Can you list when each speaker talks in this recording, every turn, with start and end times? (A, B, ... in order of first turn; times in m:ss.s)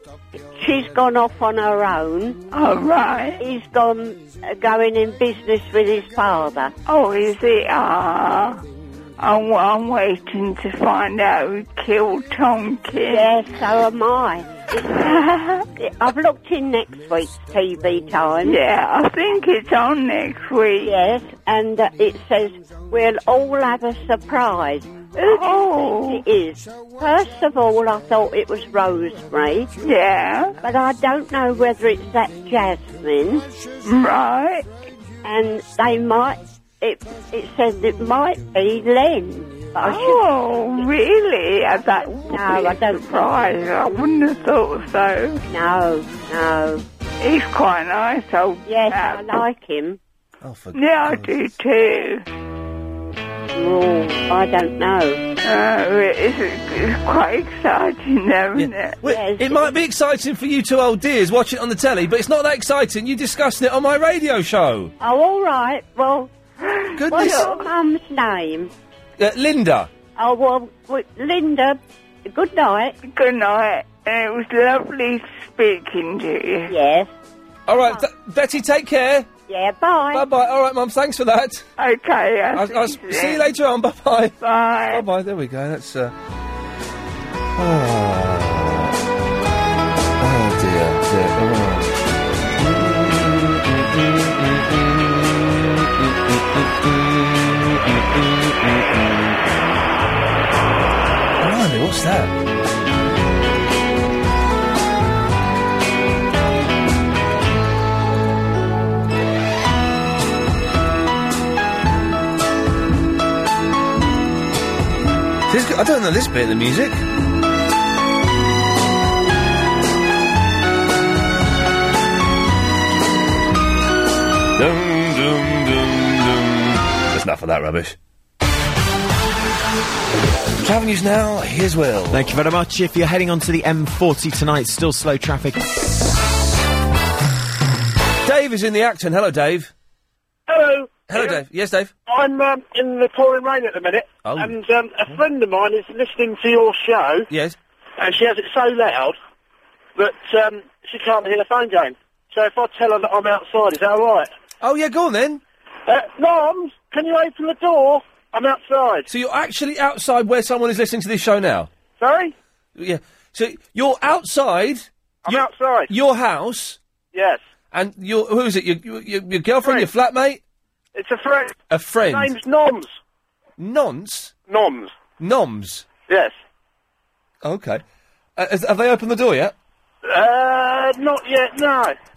0:00.5-0:02.4 A
0:02.5-0:03.4 B
0:03.4-0:06.7 A
0:06.8-0:08.6 B
0:09.2-0:13.3 B
0:13.0-0:18.6 A
0:15.2-0:15.6 B
0:18.4-0:20.9 B
0:20.8-0:29.7 A
0:25.3-0:26.2 B
0:29.8-0:30.6 B
0:30.6-0:33.4 A
0:33.8-0:34.7 B
0:35.2-0:40.9 A
0:39.8-0:45.4 B
0:42.2-0:43.4 A
0:45.5-0:46.8 A
0:47.2-0:49.4 B
0:48.6-0:50.0 A
0:50.4-0:51.4 C
0:50.7-0:52.2 B
0:53.5-0:55.2 A
0:55.4-0:59.0 B
0:58.6-1:04.9 C
0:59.0-0:59.7 A
1:05.0-1:06.3 A
1:07.0-1:07.6 C
1:07.0-1:08.7 A
1:09.2-1:09.9 C
1:10.2-1:13.0 A
1:13.0-1:16.7 B
1:16.7-1:17.1 A
1:17.7-1:19.3 C
1:19.5-1:20.3 A
1:20.1-1:21.7 C
1:21.8-1:23.5 B
1:22.5-1:24.4 C
1:24.4-1:25.0 B
1:24.9-1:26.1 C
1:27.6-1:28.9 C
1:30.2-1:32.0 C
1:32.6-1:35.5 C
1:36.6-1:38.7 C
1:41.4-1:42.3 C
1:55.5-1:57.0 C
2:04.6-2:08.0 C
2:10.6-2:12.2 C
2:12.1-2:15.5 D
2:18.2-2:19.7 C
2:20.5-2:21.4 E
2:21.1-2:21.9 C
2:22.1-2:27.3 E
2:24.2-2:24.5 C
2:27.3-2:27.6 C
2:28.0-2:29.2 E
2:30.0-2:34.3 E
2:34.6-2:35.4 C
2:35.9-2:39.1 E
2:39.1-2:41.7 C
2:42.0-2:42.3 E
2:42.8-2:46.8 C
2:45.2-2:45.9 E
2:47.1-2:47.4 E
2:47.7-2:50.4 C
2:49.6-2:49.9 E
2:50.9-2:53.0 E
2:51.7-2:52.3 C
2:53.6-2:54.3 C
2:54.5-2:54.9 E
2:55.2-2:55.8 C
2:56.1-2:56.4 E
2:57.4-2:57.8 C
2:58.4-2:59.6 C
3:00.0-3:01.9 E